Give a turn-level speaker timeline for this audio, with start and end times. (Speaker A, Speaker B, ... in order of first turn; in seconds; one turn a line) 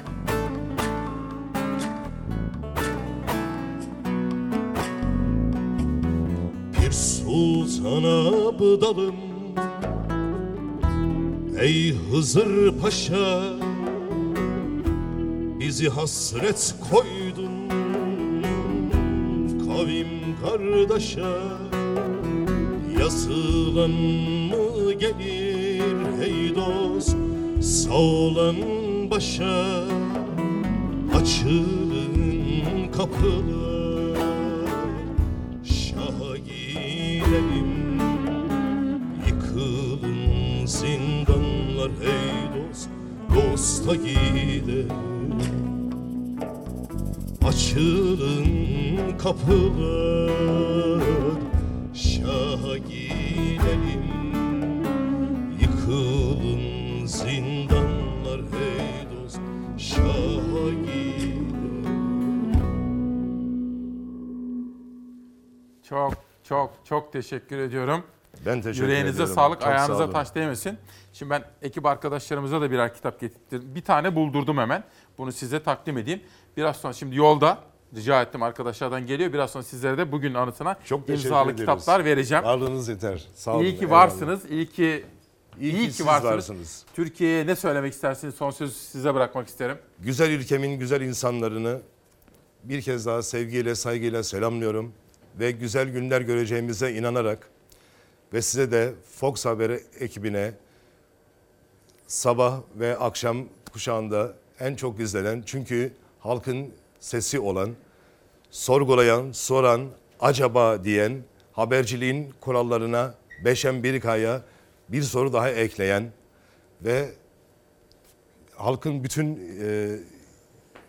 Speaker A: 6.7-9.7
Speaker A: 11.5-13.9
Speaker A: 15.6-21.8
Speaker A: 22.8-30.3
Speaker A: 31.1-35.1
Speaker A: 35.6-38.4
Speaker A: 39.1-45.7
Speaker A: 47.4-54.8
Speaker A: 55.5-62.0
Speaker B: 65.8-68.0
Speaker C: 68.4-70.2
Speaker B: 68.7-82.5
Speaker C: 80.8-84.3
Speaker B: 83.5-85.0
Speaker C: 85.6-86.8
Speaker B: 85.7-89.8
Speaker C: 90.0-91.8
Speaker C: 92.6-97.5
Speaker C: 98.3-100.6
Speaker C: 102.1-107.8
Speaker C: 108.5-116.1
Speaker C: 116.8-117.2
Speaker C: 118.6-120.1